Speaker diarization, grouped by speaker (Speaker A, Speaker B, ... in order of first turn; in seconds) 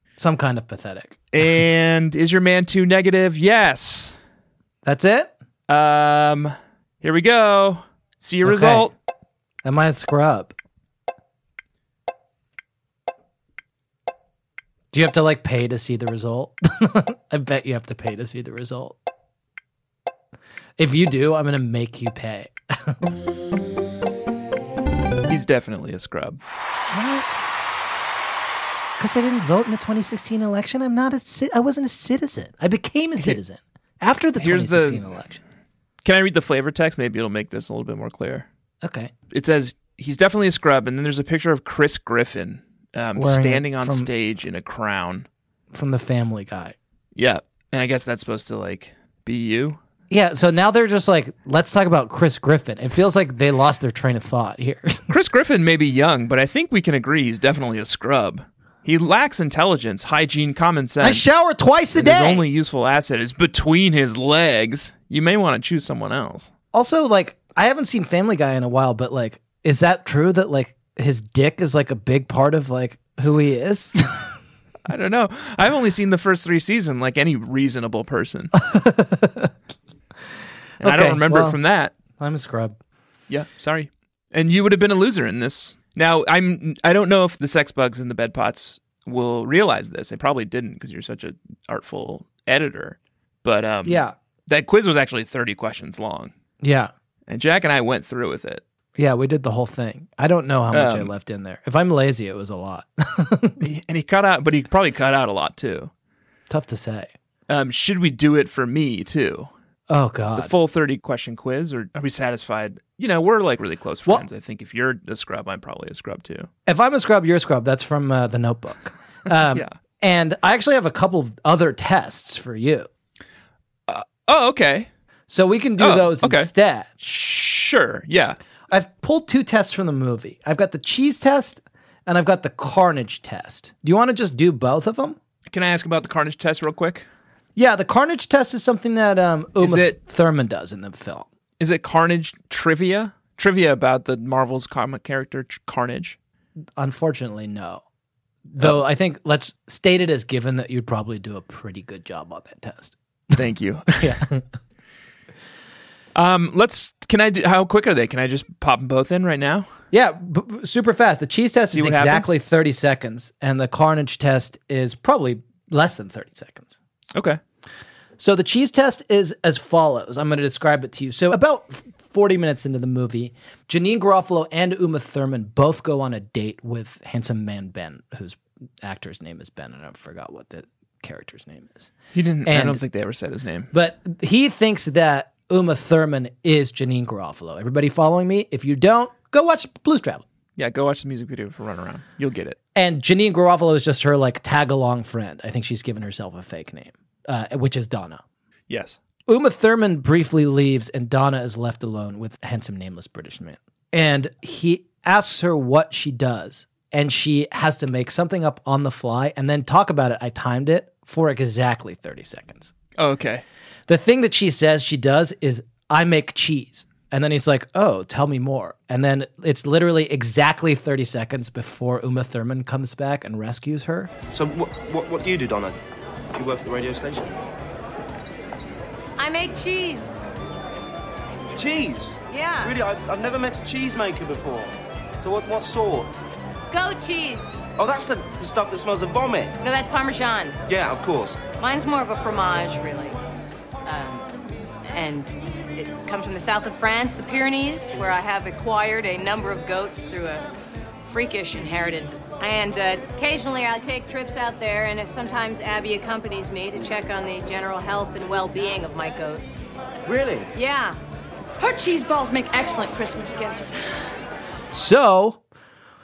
Speaker A: 0.2-1.2, 4.8-5.3, 8.4-8.9, 9.6-10.5, 14.9-19.0, 20.8-23.0, 26.9-27.4, 29.0-35.4, 38.8-39.1, 43.2-44.1, 45.7-46.8, 50.1-55.1, 61.0-62.4, 66.7-74.3, 78.6-79.5, 80.8-81.6, 82.2-82.8, 93.8-94.1, 96.6-96.9, 99.0-103.6, 106.5-107.1, 109.9-110.5, 116.7-122.9, 125.3-127.0, 128.7-135.2, 137.6-141.3, 146.8-147.8, 148.5-152.9, 154.0-154.4, 159.9-166.8, 168.2-181.9, 182.5-182.8, 183.7-190.2, 192.8-198.2, 199.3-212.7, 213.9-224.1, 264.7-265.4
Speaker B: 1.3-4.2, 5.7-8.9, 25.3-26.4, 34.4-35.0, 36.0-38.5, 39.3-45.3, 47.2-49.8, 55.1-61.2, 61.9-66.5, 74.9-78.5, 80.8-82.0, 83.3-96.3, 97.3-98.6, 100.7-101.1, 103.6-105.9, 107.5-109.5, 110.4-116.5, 123.9-124.9, 125.8-126.5, 127.0-128.4, 135.5-137.1, 139.6-140.0, 141.6-146.2, 153.3-154.2, 156.2-159.7, 161.7-162.3, 167.1-167.4, 182.1-183.7, 190.6-192.6, 198.7-199.0, 213.0-213.4
Speaker C: 224.3-225.8, 226.3-227.4, 231.5-236.1, 237.8-239.6, 240.7-241.5, 260.1-260.5
Speaker D: 229.2-230.2, 232.3-232.8, 236.7-237.6, 239.6-240.6, 241.5-243.2, 243.8-244.3, 244.9-250.5, 251.1-259.7, 260.5-261.0
Speaker E: 261.6-263.8